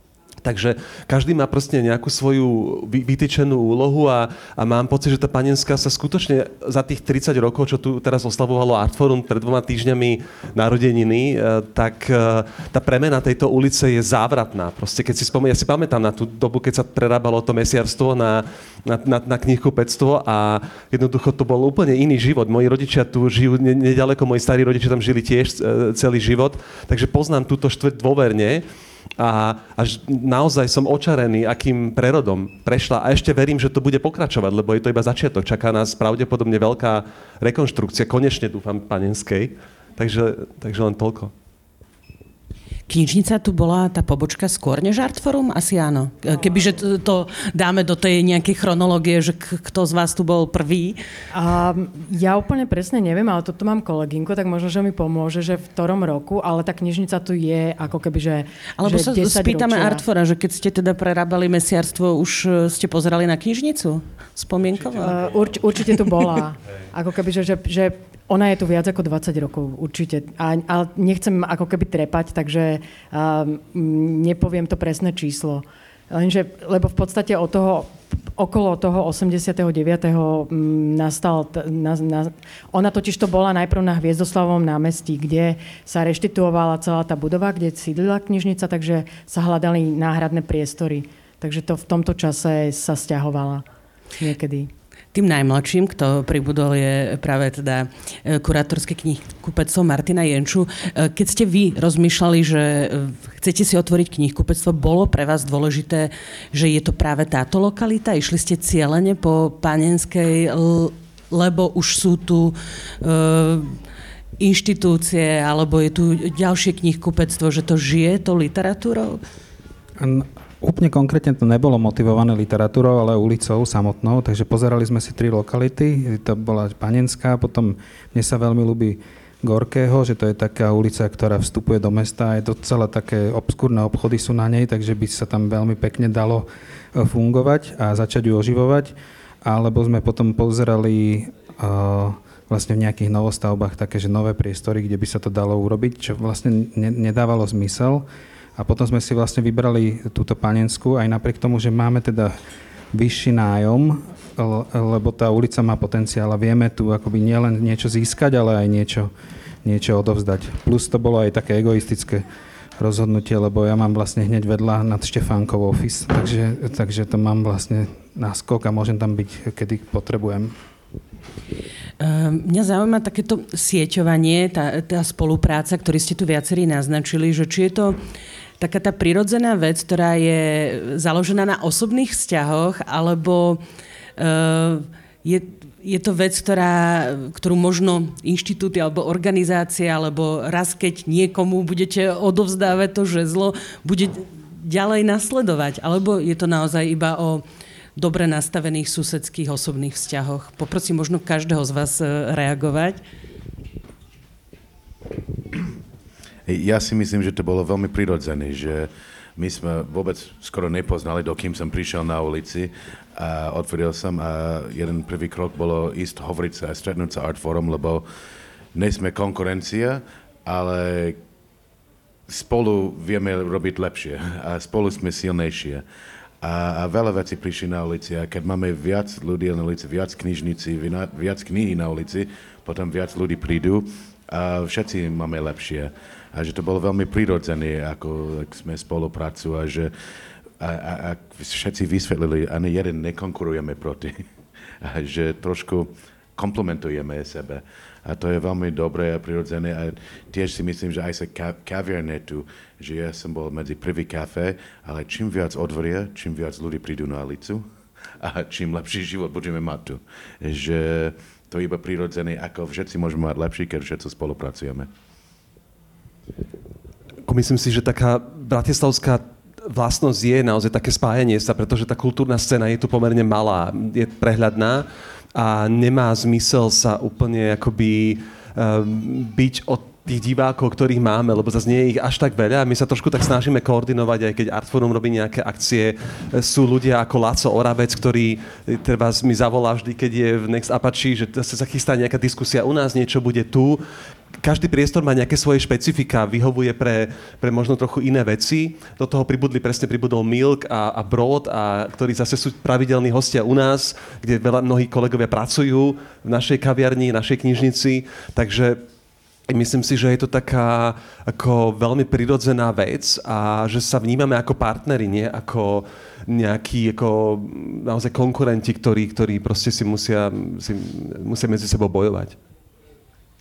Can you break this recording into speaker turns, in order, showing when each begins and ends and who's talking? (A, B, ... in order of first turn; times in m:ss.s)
0:00.4-0:28.6 A
0:29.2-0:41.3 A
0:42.9-0:51.0 B
0:51.3-1:00.0 C
0:58.8-1:05.2 B
1:05.0-1:33.6 C
1:05.1-1:05.4 A
1:34.2-1:34.7 C
1:35.1-1:53.8 B
1:54.4-1:59.2 B
2:00.0-2:32.4 D
2:32.9-2:39.1 D
2:39.6-2:42.2 D
2:42.8-2:50.5 D
2:52.0-2:58.0 B
2:58.6-3:03.6 B
3:04.2-3:17.4 B
3:18.0-3:23.0 B
3:26.5-3:38.0 E
3:38.7-3:41.2 E
3:42.3-3:45.8 E
3:46.4-3:59.9 E
4:00.6-4:04.3 E
4:04.8-4:17.6 E
4:18.2-4:24.9 E
4:27.2-4:53.8 A
4:54.4-5:08.8 A
5:09.5-5:22.4 A